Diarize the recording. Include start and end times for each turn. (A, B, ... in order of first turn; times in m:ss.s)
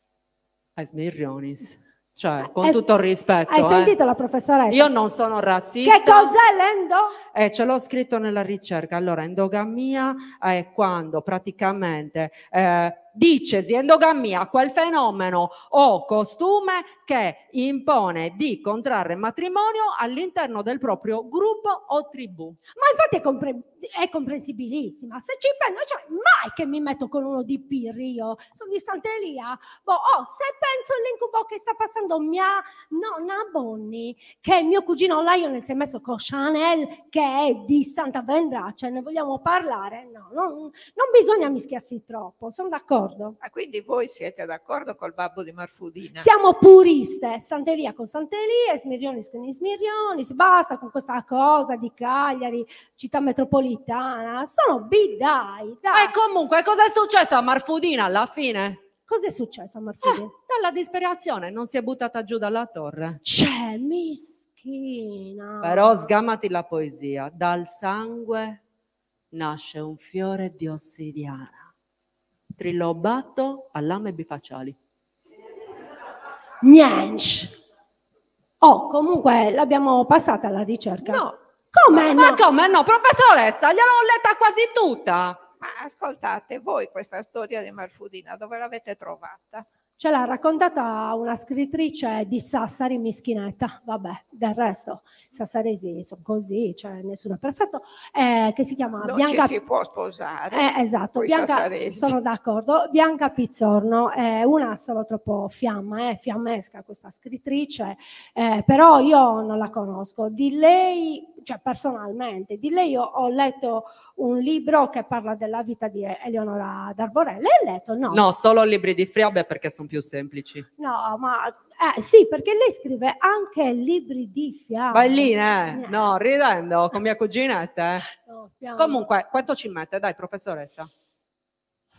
0:00.8-0:04.0 A
0:02.4-0:02.8 B
0:03.5-0:05.0 B
0:04.7-0:06.4 A
0:05.8-0:07.2 B
0:07.3-0:22.6 A
0:22.8-0:43.4 B
0:43.4-0:46.3 C
0:46.2-0:56.1 B
0:55.9-0:58.8 A
0:59.1-1:00.3 B
1:00.0-1:03.2 A
1:03.2-1:06.1 B
1:05.6-1:08.6 A
1:09.3-1:11.7 A
1:12.6-1:14.8 A
1:16.6-1:17.6 B
1:18.6-1:22.4 B
1:21.0-1:21.4 C
1:22.0-1:25.4 A
1:25.6-1:29.7 C
1:30.0-1:39.6 B
1:39.0-1:42.2 C
1:40.5-1:58.2 B
1:58.1-2:00.7 A
2:00.8-2:06.1 B
2:04.9-2:08.1 A
2:08.2-2:09.0 B
2:08.8-2:10.9 A